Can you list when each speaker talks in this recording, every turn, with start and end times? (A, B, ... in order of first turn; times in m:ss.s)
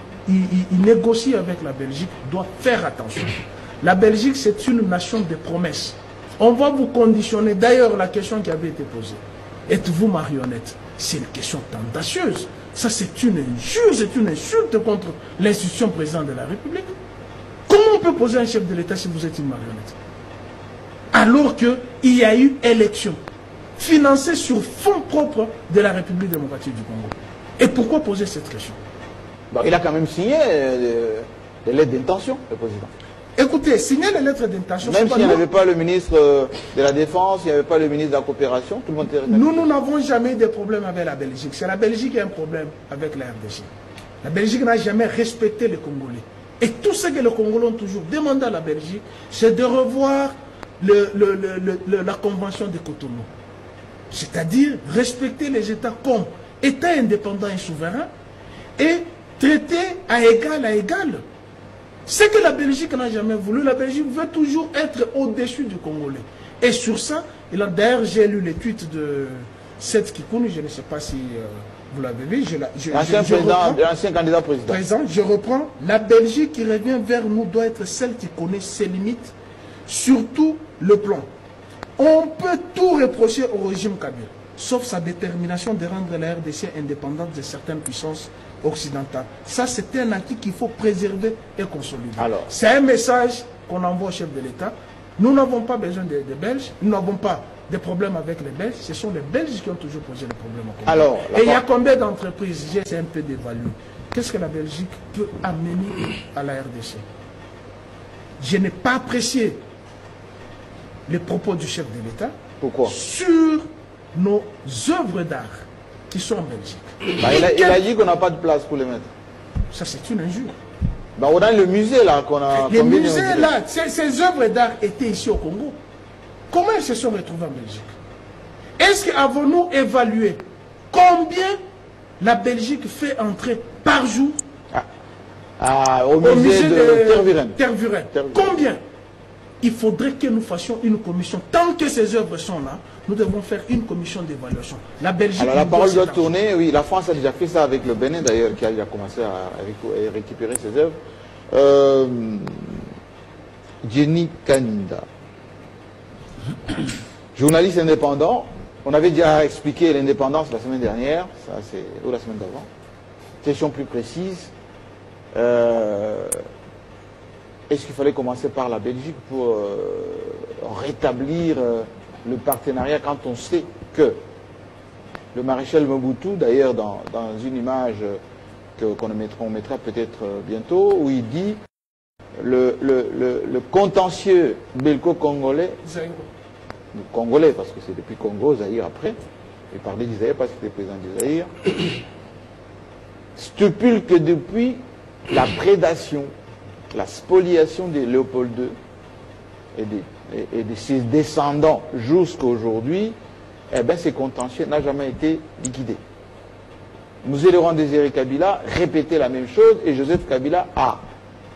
0:00.3-0:16.9 A
0:17.7-0:20.0 A
0:21.1-0:23.2 A
0:23.8-0:28.8 A
0:29.5-0:32.9 B
0:33.4-0:35.5 A
0:34.8-0:39.7 B
0:39.2-0:43.7 A
0:44.2-0:53.3 A
0:54.1-0:58.1 A
0:58.8-1:01.2 A
1:02.1-1:13.8 A
1:12.9-1:14.8 B
1:14.7-1:19.3 A
1:19.9-1:21.3 A
1:22.0-1:47.0 A
1:32.2-1:32.5 B
1:40.9-1:41.6 B
1:48.4-1:49.6 A
1:51.1-1:57.8 A
1:52.6-1:52.9 B
1:57.2-1:59.1 B
1:59.7-2:00.6 A
2:01.2-2:03.5 B
2:02.5-2:05.8 A
2:06.5-2:07.9 A
2:08.8-2:11.6 A
2:12.2-2:14.4 A
2:15.6-2:17.6 B
2:16.2-2:18.8 A
2:18.1-2:18.6 B
2:19.6-2:26.4 A
2:25.4-2:31.0 B
2:31.5-2:32.8 B
2:33.8-2:35.0 B
2:37.4-2:42.7 B
2:43.4-2:44.5 B
2:45.3-2:46.4 B
2:47.7-2:54.2 B
2:55.3-2:58.2 B
2:58.8-3:01.6 B
3:02.4-3:05.8 B
3:05.8-3:06.3 A
3:06.9-3:09.2 B
3:09.7-3:11.7 B
3:13.4-3:16.3 B
3:16.9-3:18.8 B
3:19.8-3:23.2 B
3:23.7-3:26.0 B
3:27.2-3:31.0 B